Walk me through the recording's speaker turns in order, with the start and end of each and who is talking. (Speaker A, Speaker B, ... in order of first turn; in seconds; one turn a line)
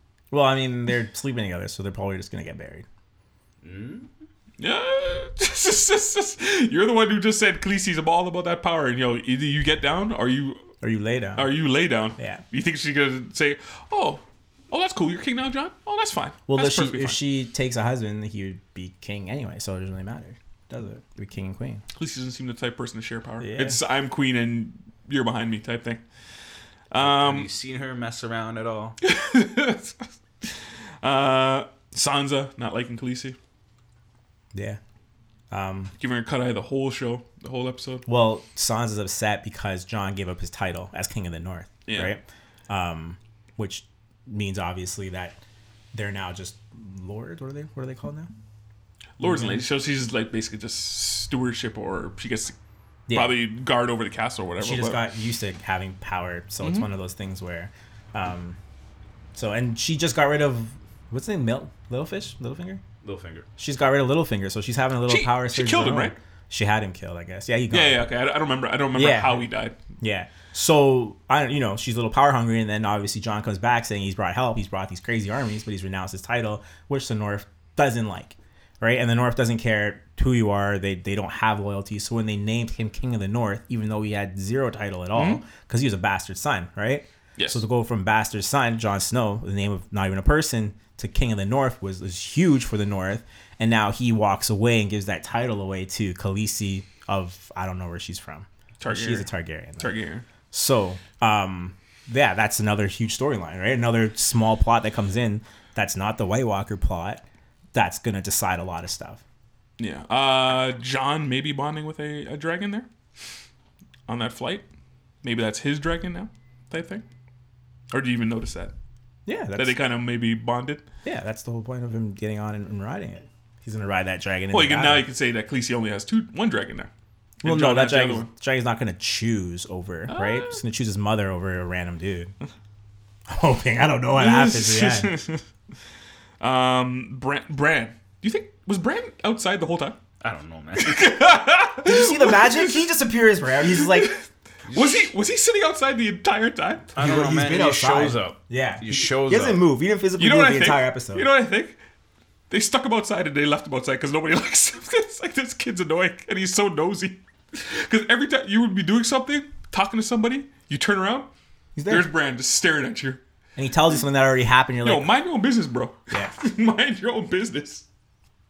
Speaker A: 0.3-2.9
Speaker B: 3.6-4.1
Speaker C: 4.6-10.7
Speaker A: 10.8-11.5
Speaker C: 11.4-17.2
Speaker A: 12.2-12.4
Speaker A: 16.5-21.8
Speaker C: 21.9-26.0
Speaker A: 23.4-23.8
Speaker C: 26.9-27.5
Speaker B: 27.0-29.0
Speaker C: 29.0-33.4
Speaker A: 34.5-34.8
Speaker A: 35.5-35.9
Speaker C: 36.0-38.1
Speaker A: 38.1-45.4
Speaker C: 41.9-42.1
Speaker A: 45.9-48.3
Speaker C: 49.2-52.6
Speaker A: 49.2-49.6
Speaker A: 53.1-53.4
Speaker C: 53.1-55.0
Speaker A: 54.6-58.6
Speaker C: 56.6-56.9
Speaker A: 59.3-62.8
Speaker B: 63.0-63.5
Speaker A: 63.6-68.1
Speaker C: 65.1-66.2
Speaker C: 67.7-69.8
Speaker A: 68.9-69.5
Speaker A: 70.0-100.0
Speaker C: 85.2-85.4
Speaker C: 87.4-87.6
Speaker C: 98.8-100.2
Speaker A: 100.5-109.2
Speaker C: 109.8-112.9
Speaker C: 114.1-114.7
Speaker C: 115.2-117.0
Speaker C: 117.9-118.7
Speaker A: 119.3-119.8
Speaker C: 119.6-120.8
Speaker A: 121.0-125.1
Speaker C: 124.5-126.9
Speaker C: 127.4-128.3
Speaker A: 127.4-132.3
Speaker C: 130.1-130.6
Speaker A: 133.3-135.2
Speaker C: 134.1-135.4
Speaker C: 136.4-140.0
Speaker B: 140.2-141.1
Speaker C: 140.8-142.9
Speaker A: 141.8-144.2
Speaker C: 143.7-146.9
Speaker B: 144.7-145.1
Speaker B: 146.9-149.6
Speaker A: 147.0-151.3
Speaker C: 150.2-151.8
Speaker C: 152.5-161.3
Speaker A: 161.8-162.1
Speaker C: 161.9-163.2
Speaker A: 163.6-165.1
Speaker C: 164.8-167.8